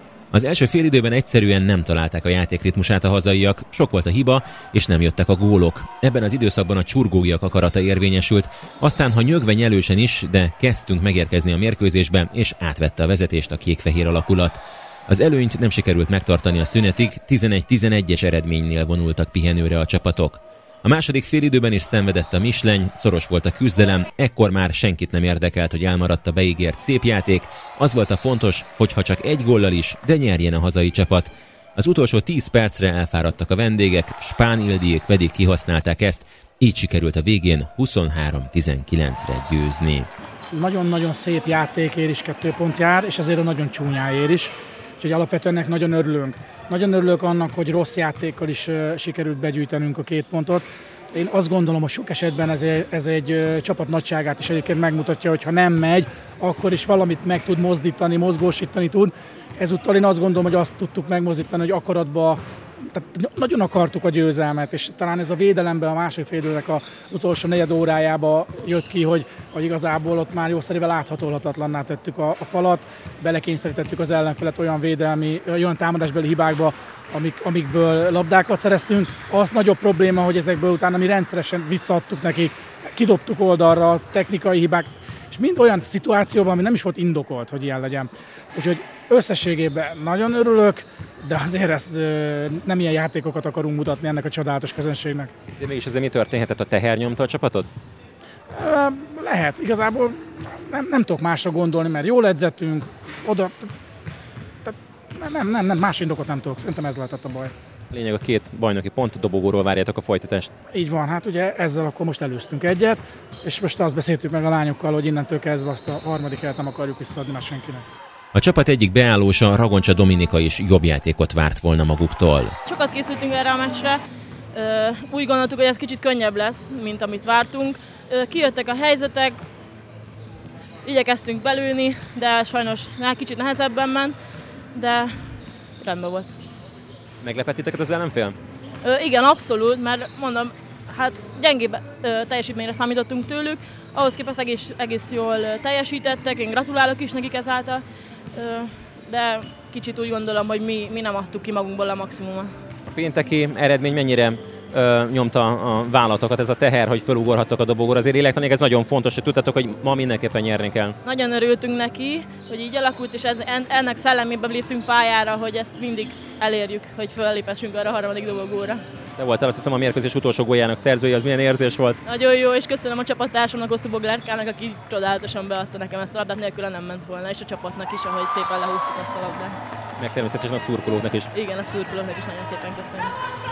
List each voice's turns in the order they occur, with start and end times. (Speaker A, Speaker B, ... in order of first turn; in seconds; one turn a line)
Speaker A: 0.3-40.1
Speaker B: 40.5-95.3
Speaker A: 95.6-97.7
Speaker B: 98.5-103.7
Speaker B: 104.6-107.5
Speaker A: 107.9-110.5
Speaker B: 110.7-117.8
Speaker A: 118.3-122.5
Speaker C: 122.7-124.0
Speaker C: 124.5-129.4
Speaker C: 130.8-134.2
Speaker C: 134.7-136.3
Speaker A: 137.2-138.4
Speaker C: 138.8-152.5
Speaker A: 152.9-161.0
Speaker C: 161.1-168.8
Speaker A: 169.2-172.0
Speaker C: 172.0-179.6
Speaker A: 180.0-181.3
Speaker C: 181.3-183.2